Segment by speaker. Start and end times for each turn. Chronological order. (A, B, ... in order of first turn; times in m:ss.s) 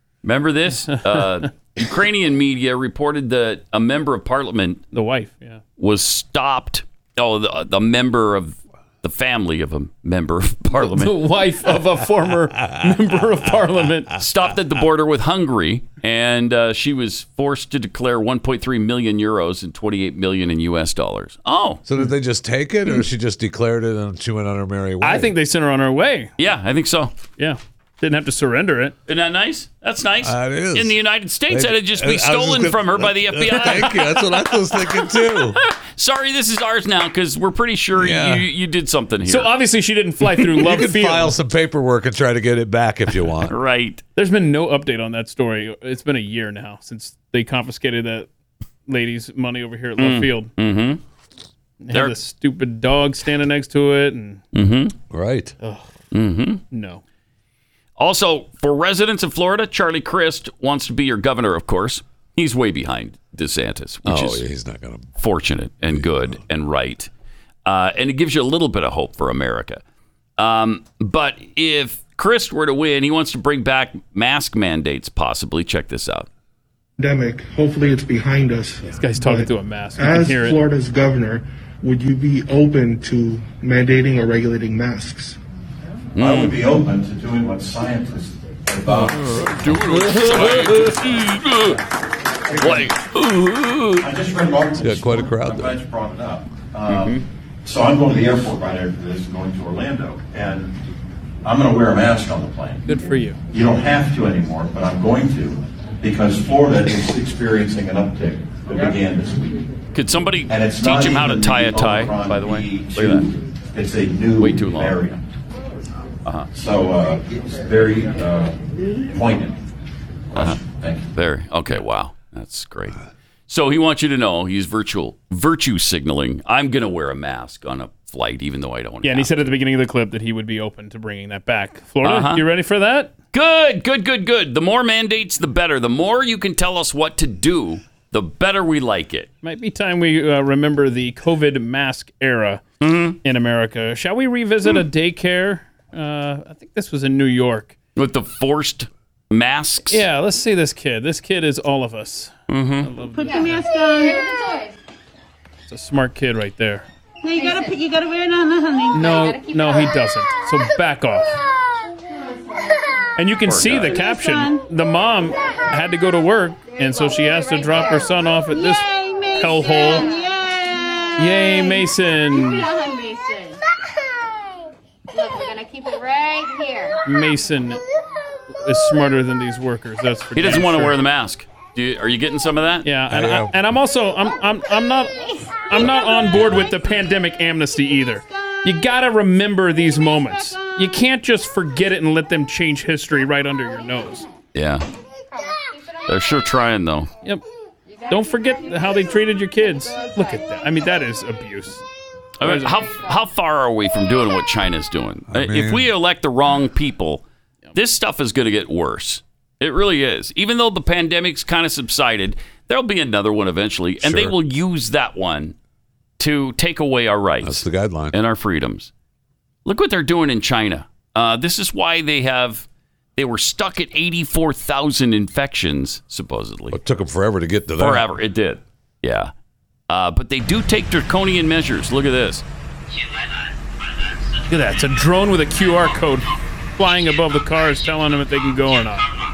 0:00.2-0:04.8 A
0:00.9-0:01.5 B
0:04.9-0:05.6 B
0:05.8-0:11.2 A
0:10.8-0:14.1 B
0:14.2-0:21.8 A
0:21.8-0:25.3 C
0:25.0-0:26.3 B
0:26.4-0:27.1 A
0:27.4-0:28.9 B
0:29.1-0:34.1 A
0:30.2-0:31.0 C
0:31.5-0:35.6 C
0:33.7-0:34.0 B
0:35.8-0:39.5 A
0:38.0-0:38.5 C
0:39.2-0:41.3 B
0:40.5-0:43.5 C
0:43.4-0:44.0 A
0:44.2-0:48.3 B
0:48.9-0:50.5 B
0:50.0-0:51.0 A
0:51.8-0:54.4 B
0:54.5-0:54.9 A
0:55.1-0:55.5 C
0:55.6-0:55.9 B
0:56.1-0:56.6 A
0:56.7-0:57.0 B
0:58.0-1:04.4 A
1:04.0-1:05.1 C
1:05.2-1:07.1 A
1:07.6-1:09.8 A
1:10.4-1:16.3 A
1:17.0-1:25.4 D
1:18.8-1:20.6 B
1:26.2-1:29.4 E
1:26.2-1:26.6 A
1:29.1-1:31.8 A
1:30.1-1:31.1 E
1:32.5-1:32.9 E
1:32.6-1:34.1 A
1:34.0-1:40.8 E
1:34.8-1:35.8 C
1:36.9-1:37.2 A
1:41.4-1:42.8 E
1:42.8-1:43.4 B
1:43.5-1:49.6 E
1:49.9-1:53.3 A
1:50.5-1:55.2 E
1:54.4-1:55.0 A
1:56.2-1:56.5 A
1:56.5-1:59.6 E
2:00.3-2:01.1 E
2:00.3-2:00.6 A
2:01.1-2:09.3 A
2:09.0-2:13.1 B
2:12.0-2:12.4 A
2:13.3-2:19.3 A
2:19.4-2:22.6 B
2:22.8-2:23.2 A
2:23.2-2:27.7 B
2:28.0-2:30.0 A
2:29.9-2:33.6 B
2:32.5-2:32.9 A
2:33.1-2:34.7 F
2:35.7-2:36.8 B
2:37.2-2:39.8 F
2:38.9-2:41.4 B
2:43.2-2:50.1 B
2:43.4-2:44.0 A
2:44.1-2:44.6 F
2:47.7-2:51.8 F
2:51.2-2:52.7 B
2:52.3-2:53.6 F
2:55.1-2:57.0 F
2:57.0-2:57.8 B
2:58.6-3:01.0 B
3:00.4-3:02.9 A
3:02.8-3:05.2 B
3:03.1-3:03.5 C
3:05.7-3:14.2 B
3:14.5-3:14.9 A
3:16.0-3:17.1 A
3:18.1-3:21.8 B
3:22.4-3:27.2 A
3:22.4-3:22.9 B
3:25.3-3:25.9 C
3:27.7-3:35.5 A
3:34.0-3:34.3 C
3:36.2-3:38.9 A
3:37.4-3:38.2 C
3:39.6-3:46.8 A
3:46.7-3:48.1 C
3:47.8-3:49.3 A
3:49.9-3:52.4 A
3:54.5-3:59.1 B